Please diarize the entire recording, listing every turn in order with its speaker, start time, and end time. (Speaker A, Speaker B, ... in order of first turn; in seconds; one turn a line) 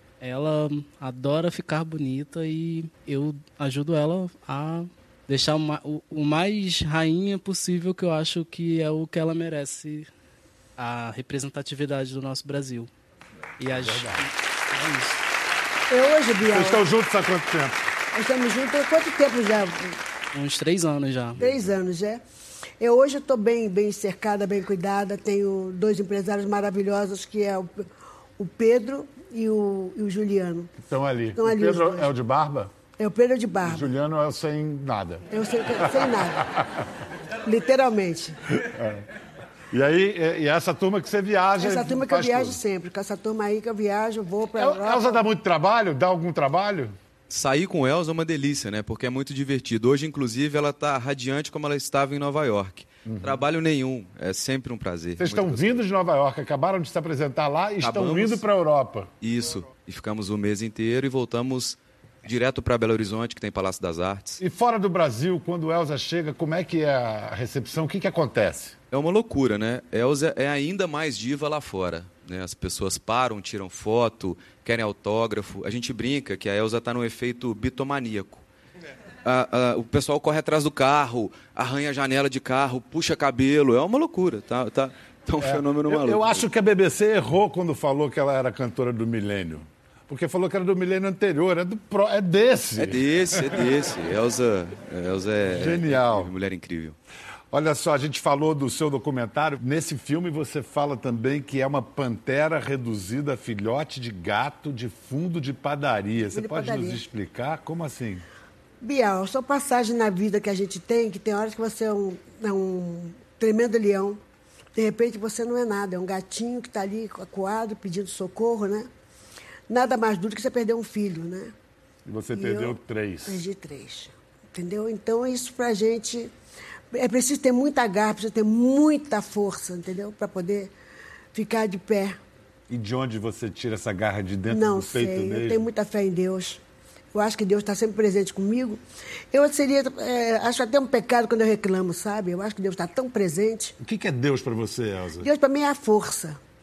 Speaker A: 0.2-10.1
Speaker A: 10.8-12.9
Speaker A: 13.6-15.2
Speaker B: 13.8-14.2
Speaker C: 15.9-16.8
Speaker B: 16.4-17.8
Speaker C: 18.1-20.0
Speaker A: 20.3-21.4
Speaker C: 21.4-22.2
Speaker B: 21.4-21.7
Speaker C: 22.8-30.7
Speaker B: 30.8-32.7
Speaker C: 31.4-32.1
Speaker C: 33.0-33.9
Speaker B: 33.6-35.3
Speaker C: 35.3-36.5
Speaker C: 37.4-38.4
Speaker B: 38.6-39.0
Speaker B: 39.7-42.6
Speaker C: 41.6-45.2
Speaker B: 44.6-47.0
Speaker D: 47.3-55.8
Speaker B: 53.0-53.4
Speaker B: 55.2-59.1
Speaker D: 57.8-58.4
Speaker D: 59.2-64.4
Speaker B: 64.4-68.8
Speaker D: 68.9-78.4
Speaker D: 79.2-86.5
Speaker B: 85.4-93.0
Speaker D: 92.8-97.0
Speaker B: 95.5-96.3
Speaker B: 97.5-108.2
Speaker C: 106.3-107.0
Speaker C: 108.8-114.2
Speaker C: 114.7-118.9
Speaker C: 119.7-121.5
Speaker B: 122.0-123.4
Speaker C: 122.3-126.3
Speaker C: 126.9-130.7
Speaker C: 131.3-132.2
Speaker B: 132.7-135.6
Speaker C: 134.5-136.6
Speaker C: 137.1-138.8
Speaker C: 139.3-143.7
Speaker B: 143.8-145.3
Speaker C: 145.2-146.4